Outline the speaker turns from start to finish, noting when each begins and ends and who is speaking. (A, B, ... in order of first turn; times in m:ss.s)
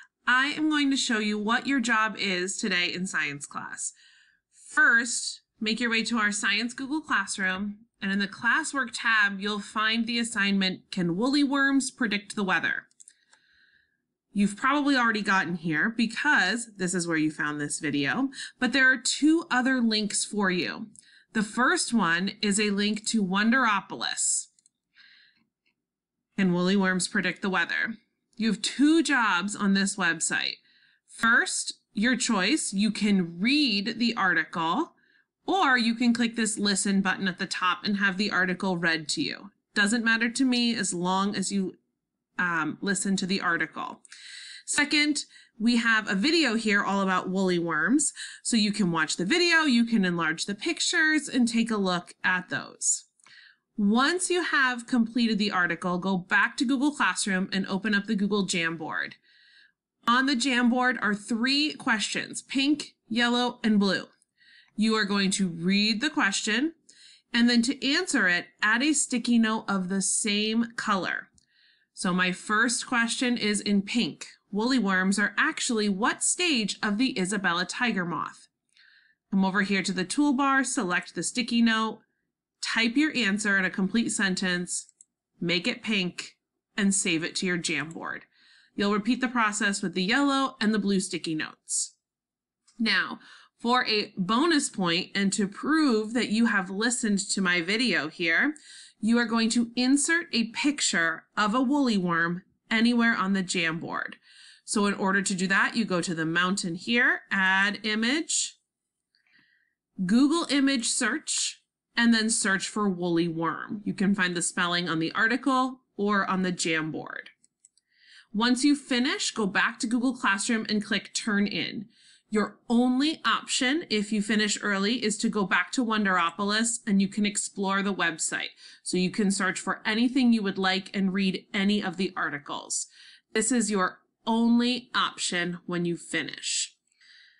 0:00.2-0:03.9 A
0:04.6-0:12.9 A
0:14.3-0:24.5 A
0:26.4-0:41.8 A
0:42.4-0:44.0 A
0:44.6-0:53.1 A
0:53.8-0:59.2 A
1:00.0-1:04.1 A
1:04.8-1:06.7 A
1:07.3-1:11.3 A
1:11.9-1:18.5 A
1:19.3-1:22.0 A
1:22.6-1:24.9 A
1:25.4-1:31.9 A
1:32.8-1:48.6 A
1:50.0-1:57.3 A
1:58.3-2:16.7 A